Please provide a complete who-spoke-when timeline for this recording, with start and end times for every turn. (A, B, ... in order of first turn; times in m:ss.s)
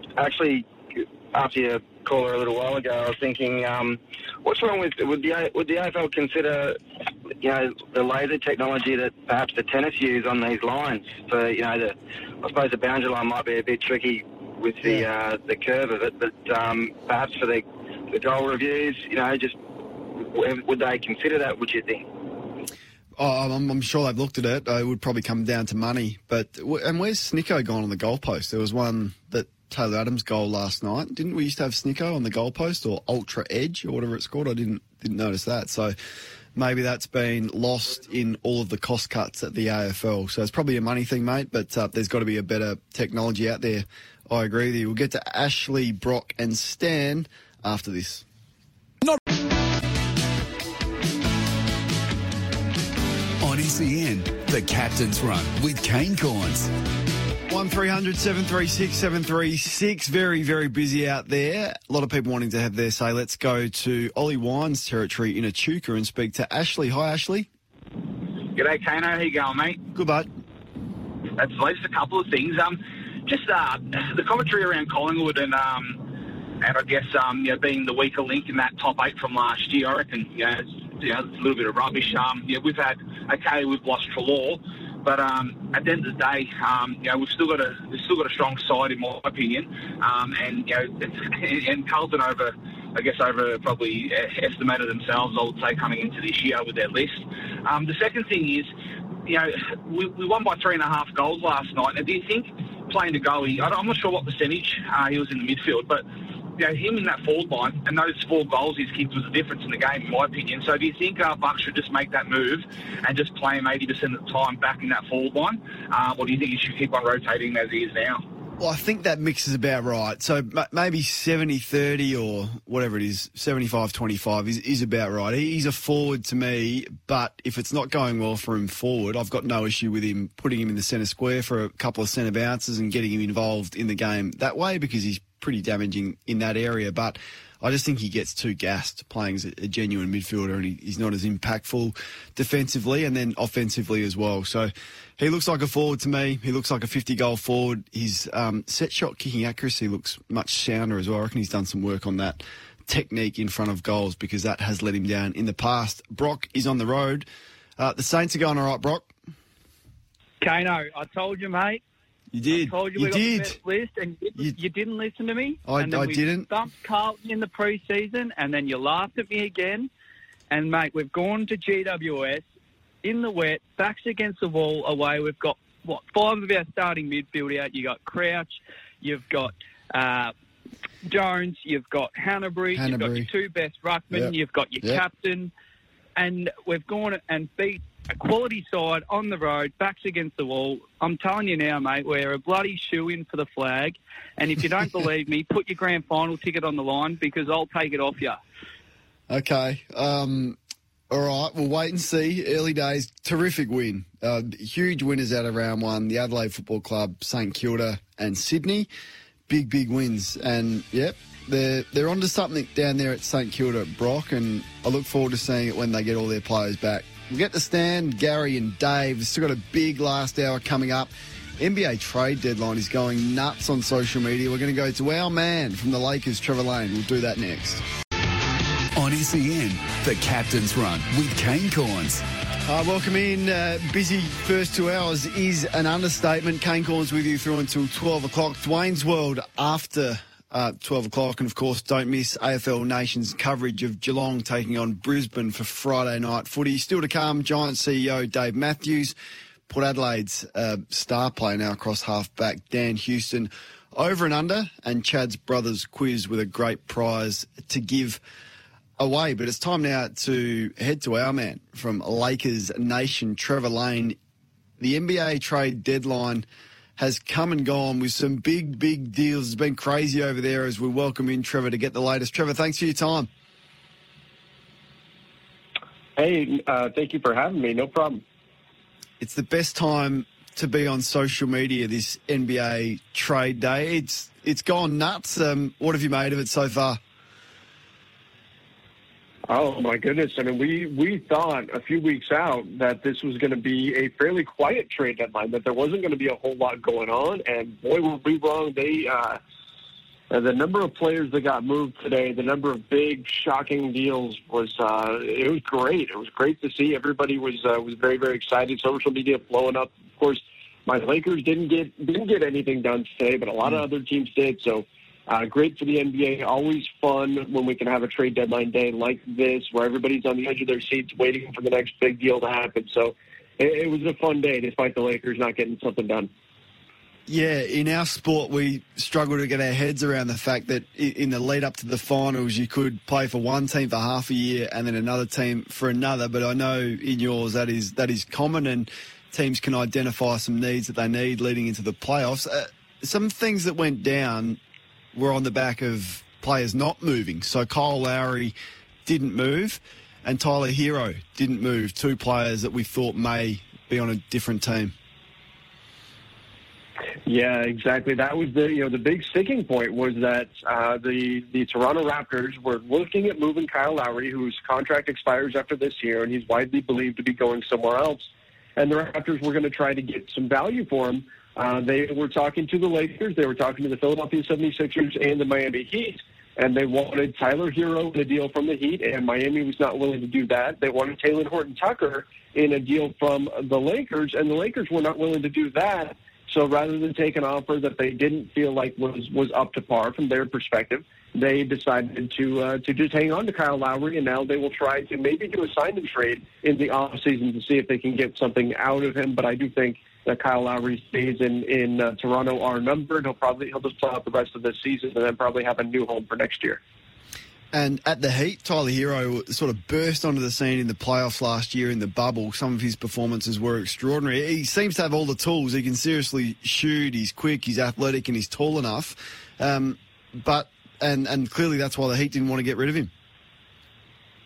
0:00.2-0:06.8 A
0:07.4-0:19.6 A
0:20.2-0:22.1 A
0:23.2-0:35.9 B
0:36.6-0:48.2 B
0:53.4-0:56.7 C
0:57.5-1:07.5 B
1:08.5-1:09.8 D
1:09.9-1:10.3 B
1:11.4-1:16.1 D
1:16.6-1:38.7 D
1:39.3-1:58.3 D
1:58.6-2:37.3 B
2:37.8-2:39.1 B
2:40.4-2:41.8 E
2:42.3-2:43.6 B
2:42.5-2:49.9 E
2:45.7-2:46.5 B
2:50.5-2:52.4 E
2:53.0-3:00.3 E
3:01.0-3:05.5 E
3:02.7-3:03.3 B
3:04.1-3:05.0 B
3:06.2-3:18.4 E
3:19.3-3:20.6 B
3:21.1-3:28.9 B
3:29.5-3:47.8 B
3:49.0-3:52.2 C
3:52.7-4:09.2 B
4:09.7-4:18.2 B
4:19.0-4:24.2 B
4:24.8-4:26.4 B
4:27.0-4:33.3 B
4:36.2-4:38.2 F
4:39.2-4:47.0 B
4:49.5-4:59.4 F
5:00.3-5:26.3 F
5:27.3-5:44.6 B
5:45.1-5:48.6 B
5:49.1-5:54.9 B
5:57.3-6:46.8 F
6:47.7-7:03.1 B